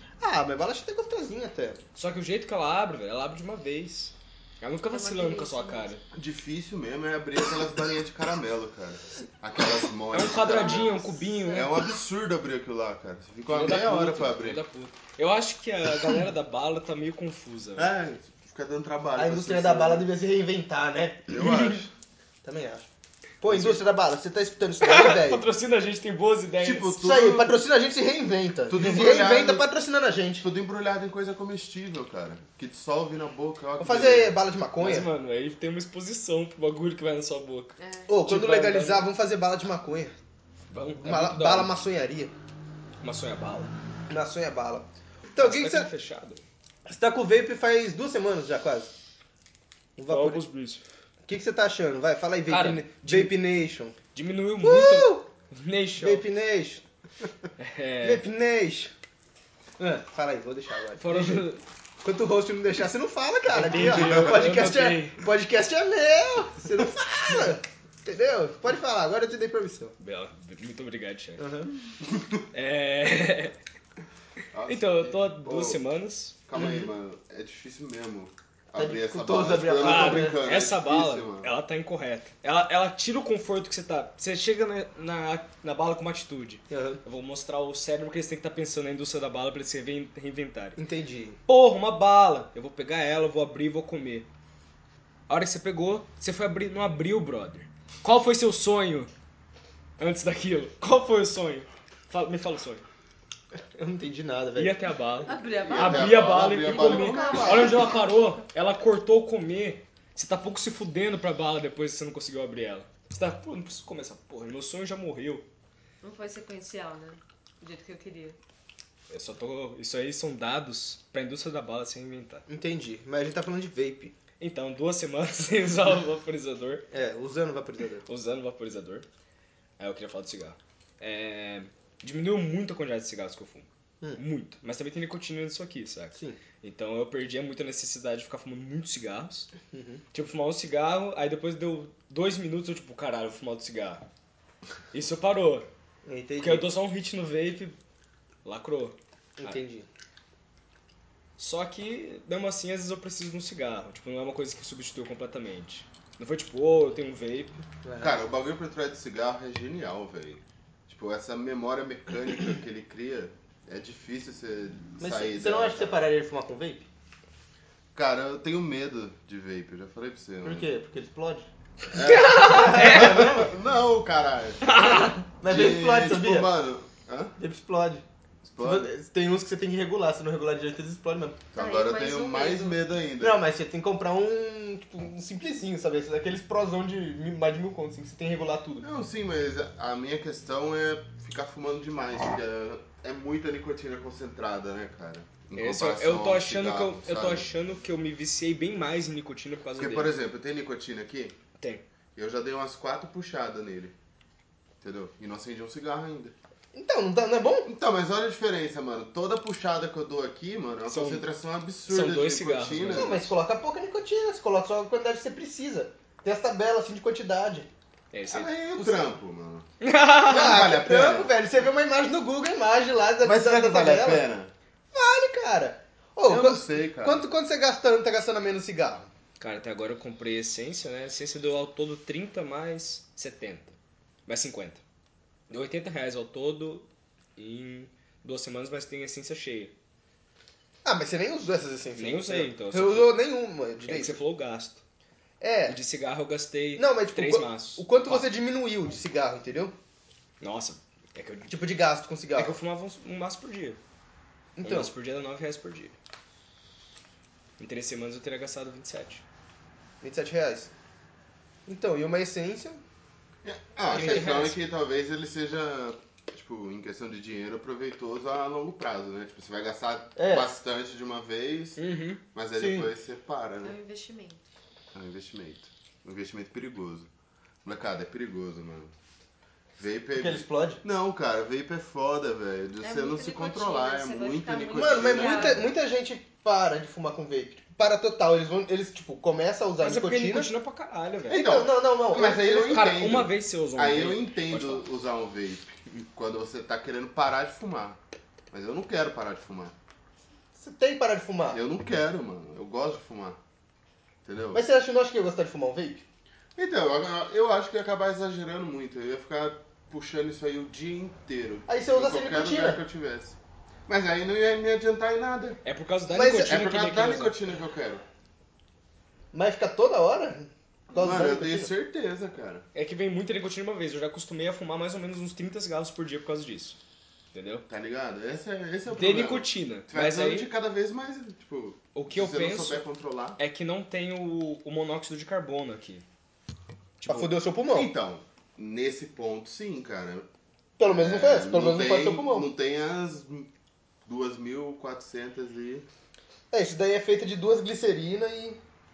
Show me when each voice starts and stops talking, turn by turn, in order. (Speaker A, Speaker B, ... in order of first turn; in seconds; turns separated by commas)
Speaker A: 0.2-1.8, Speaker B: 1.9-6.0, Speaker C: 4.9-5.9, Speaker D: 6.1-14.6, Speaker B: 10.1-11.8, Speaker C: 10.5-11.7, Speaker B: 13.5-17.9, Speaker D: 17.8-20.1, Speaker A: 19.1-21.3, Speaker D: 21.3-21.9, Speaker B: 21.4-21.8, Speaker A: 22.4-22.9, Speaker A: 23.4-25.4, Speaker B: 23.5-23.8, Speaker B: 24.8-26.9, Speaker D: 26.6-27.5, Speaker A: 27.0-30.4, Speaker D: 28.7-29.7, Speaker D: 30.4-34.4, Speaker A: 33.8-35.1, Speaker B: 34.8-37.7, Speaker C: 37.8-38.1, Speaker A: 38.1-40.1, Speaker B: 38.2-39.1, Speaker B: 40.7-41.7, Speaker A: 41.0-42.3, Speaker B: 43.0-43.7, Speaker A: 44.1-45.9, Speaker B: 45.4-46.4, Speaker A: 46.9-48.9, Speaker A: 50.0-50.4, Speaker B: 50.1-50.8, Speaker A: 51.2-54.0, Speaker B: 52.5-53.4, Speaker B: 54.1-56.2, Speaker A: 54.6-55.2, Speaker A: 56.0-56.8, Speaker B: 57.6-58.2, Speaker A: 58.0-58.9, Speaker A: 59.8-61.4, Speaker B: 61.0-61.6, Speaker A: 62.0-69.9, Speaker B: 63.5-65.2, Speaker D: 64.0-64.3, Speaker B: 70.0-71.4, Speaker A: 71.4-71.7, Speaker B: 72.5-73.5, Speaker D: 74.5-75.8, Speaker B: 74.7-76.3, Speaker D: 76.5-81.5, Speaker A: 76.5-76.9, Speaker A: 78.8-80.4, Speaker B: 79.8-90.8, Speaker A: 86.7-87.0, Speaker A: 90.8-91.4, Speaker B: 91.5-94.3, Speaker B: 95.3-99.1, Speaker B: 100.0-102.8, Speaker A: 103.7-104.8, Speaker B: 104.6-115.4, Speaker C: 105.2-108.1, Speaker D: 105.6-107.8, Speaker C: 116.0-118.4, Speaker B: 119.1-122.5, Speaker A: 122.5-124.1, Speaker B: 124.4-126.8, Speaker A: 126.9-128.1, Speaker B: 128.1-129.1, Speaker B: 129.8-139.5, Speaker A: 139.7-140.0, Speaker B: 140.1-144.0, Speaker B: 144.9-145.7, Speaker A: 146.1-146.7, Speaker B: 146.4-147.8, Speaker B: 148.4-149.6, Speaker A: 149.4-149.9, Speaker B: 151.4-157.6, Speaker A: 157.8-158.2, Speaker D: 158.0-166.0, Speaker A: 165.0-166.9, Speaker D: 167.9-170.7, Speaker A: 170.4-171.5, Speaker D: 171.9-174.8, Speaker B: 172.0-173.4, Speaker A: 172.4-173.4, Speaker B: 174.6-175.1, Speaker A: 174.8-176.5, Speaker D: 175.4-177.3, Speaker A: 177.4-178.0, Speaker D: 178.4-178.9, Speaker A: 178.6-181.4, Speaker D: 181.5-183.4, Speaker C: 181.6-182.8, Speaker A: 183.2-188.8, Speaker D: 188.8-197.5, Speaker B: 195.5-200.1, Speaker D: 199.8-201.3, Speaker B: 201.6-201.8, Speaker D: 202.2-203.9, Speaker D: 204.8-206.3, Speaker A: 206.7-207.7, Speaker D: 207.6-213.3, Speaker B: 210.9-211.3, Speaker B: 211.9-213.3, Speaker A: 212.9-217.7, Speaker B: 218.1-219.0, Speaker D: 218.3-219.7, Speaker B: 219.8-220.7, Speaker A: 220.3-224.3, Speaker D: 220.3-221.3, Speaker D: 223.2-224.5, Speaker A: 224.9-229.1, Speaker D: 226.3-227.3, Speaker B: 229.4-233.7, Speaker B: 234.2-234.8, Speaker B: 235.5-239.7, Speaker A: 240.8-244.2, Speaker B: 242.0-243.2, Speaker B: 243.8-244.8, Speaker A: 245.4-245.8, Speaker B: 245.7-248.3, Speaker A: 246.8-249.7, Speaker B: 250.4-251.6, Speaker A: 251.5-252.5, Speaker B: 252.3-253.8, Speaker A: 254.6-254.9, Speaker B: 254.6-255.9, Speaker B: 257.6-259.2, Speaker A: 260.0-260.7, Speaker A: 261.6-262.8, Speaker D: 263.4-271.8, Speaker A: 263.9-264.4, Speaker B: 263.9-264.6, Speaker A: 270.1-270.5, Speaker B: 271.8-272.2, Speaker D: 272.3-273.8, Speaker A: 272.6-272.9, Speaker C: 273.6-274.4, Speaker D: 274.9-277.1, Speaker D: 277.6-278.9, Speaker D: 279.8-285.7, Speaker A: 280.1-280.8, Speaker C: 282.8-285.7, Speaker A: 284.7-290.5, Speaker B: 289.8-291.4, Speaker D: 291.3-298.0, Speaker A: 291.3-292.8, Speaker B: 292.6-294.9, Speaker D: 298.5-299.7, Speaker A: 300.6-301.6, Speaker D: 301.5-303.4, Speaker D: 304.2-304.6, Speaker A: 304.5-306.0, Speaker D: 306.6-315.6, Speaker A: 311.7-312.8, Speaker B: 315.6-317.4, Speaker A: 316.1-316.6, Speaker D: 316.4-318.0, Speaker A: 319.3-321.7, Speaker D: 320.9-322.6, Speaker B: 322.7-326.8, Speaker B: 327.3-327.6, Speaker D: 327.7-333.4, Speaker B: 328.9-330.5, Speaker B: 331.9-332.8, Speaker B: 333.4-336.0, Speaker B: 337.0-337.3, Speaker A: 337.1-337.9, Speaker D: 337.7-340.3, Speaker A: 340.8-342.5, Speaker D: 340.8-343.5, Speaker D: 344.0-345.9, Speaker A: 346.5-348.6